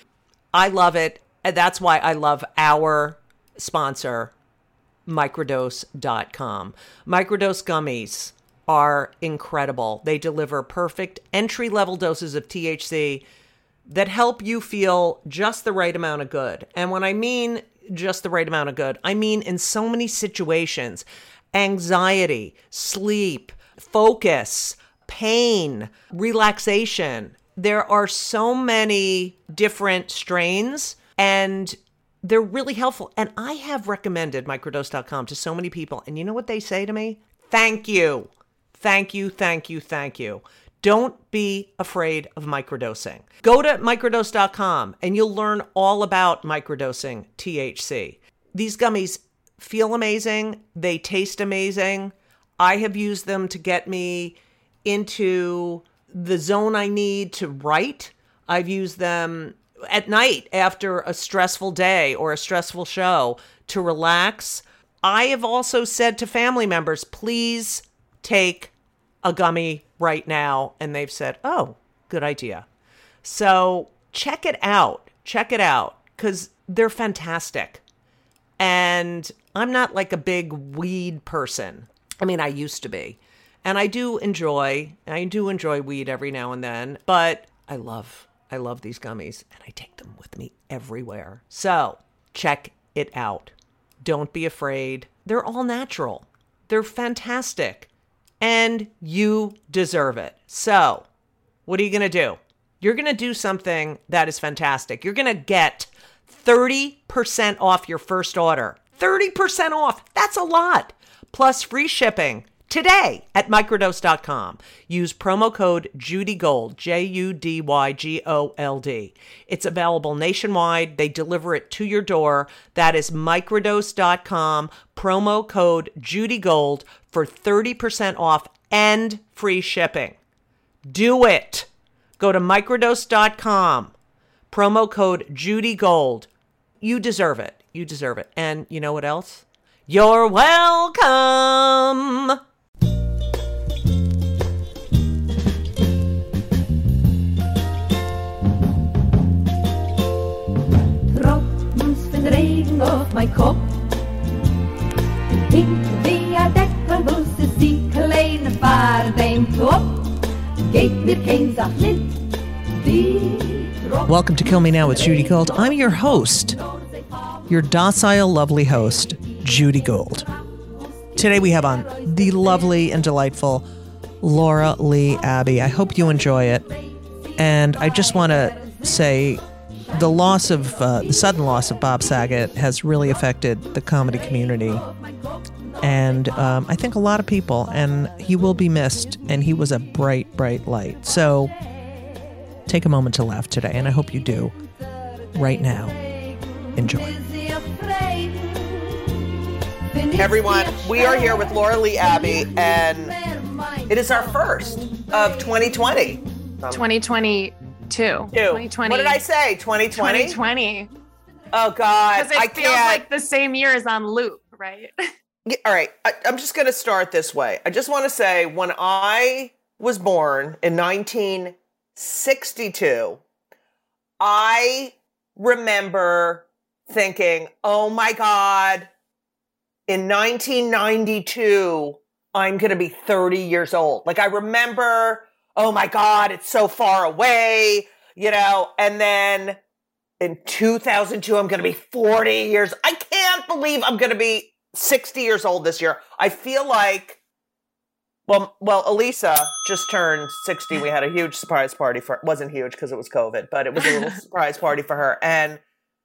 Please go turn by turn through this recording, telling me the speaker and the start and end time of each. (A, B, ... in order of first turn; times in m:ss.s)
0:00.5-0:04.3 A
0:05.1-0:13.2 A
0:13.9-1:08.7 A
1:09.2-1:12.7 A
1:13.2-1:17.8 A
1:18.6-1:37.9 A
1:38.4-1:41.1 A
1:41.7-2:10.2 A
2:10.9-2:11.7 A
2:12.2-2:13.9 A
2:14.5-2:16.3 A
2:16.8-2:22.4 A
2:31.1-2:34.0 B
2:35.5-2:44.1 B
2:44.1-2:46.6 A
2:47.5-2:50.3 A
2:51.2-2:53.7 A
2:54.2-2:56.7 A
2:57.4-2:59.4 A
2:59.9-3:04.9 A
3:05.8-3:11.5 A
3:12.7-3:14.5 A
3:15.4-3:16.0 A
3:16.8-3:17.2 A
3:16.8-3:19.2 B
3:19.9-3:24.0 B
3:20.2-3:23.2 A
3:23.9-3:26.8 A
3:24.8-3:25.1 B
3:26.7-3:29.2 C
3:28.3-3:30.4 A
3:29.9-3:30.9 C
3:31.5-3:33.0 A
3:32.1-3:34.9 C
3:35.5-3:43.2 A
3:44.2-3:48.9 A
3:49.9-3:59.6 A
4:00.2-4:07.2 A
4:08.3-4:15.6 A